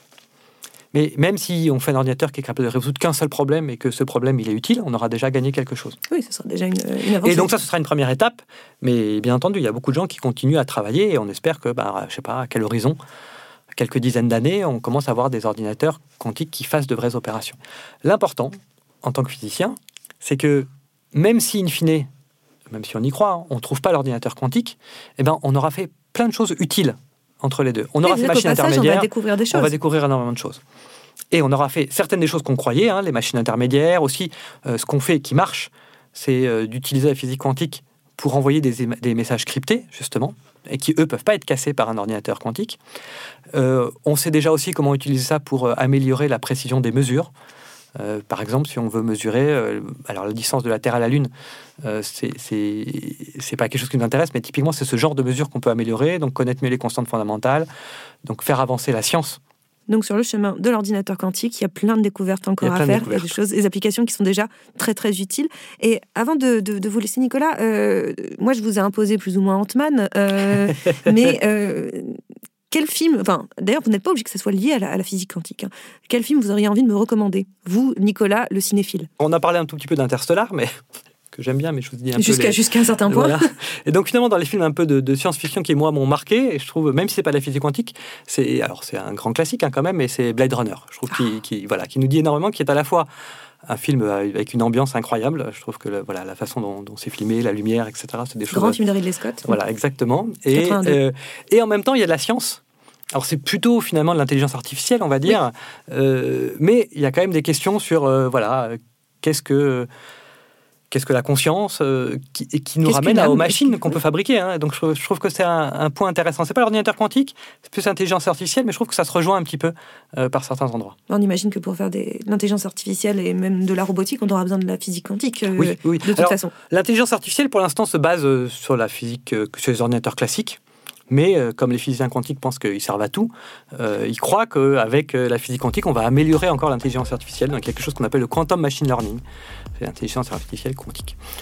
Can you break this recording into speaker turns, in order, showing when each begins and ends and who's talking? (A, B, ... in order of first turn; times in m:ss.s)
0:00.9-0:06.0 A
0:06.1-0:07.5 B
0:07.2-0:13.0 A
0:13.7-0:22.1 A
0:22.7-0:30.6 A
0:28.0-0:29.7 B
0:31.3-0:42.8 A
0:43.5-0:47.3 A
0:48.0-0:51.3 A
0:51.8-0:57.7 A
0:58.2-0:59.4 A
0:59.9-1:12.2 B
1:02.6-1:03.4 A
1:10.7-1:11.3 A
1:12.7-1:19.1 B
1:19.2-1:20.8 A
1:21.3-1:33.1 A
1:22.2-1:23.6 B
1:33.6-1:38.8 A
1:38.5-1:39.5 B
1:39.4-1:42.6 A
1:40.5-1:41.0 B
1:43.1-1:49.9 A
1:50.9-2:01.0 A
1:52.8-1:54.0 B
2:01.1-2:06.5 B
2:05.6-2:19.2 A
2:19.8-2:21.2 A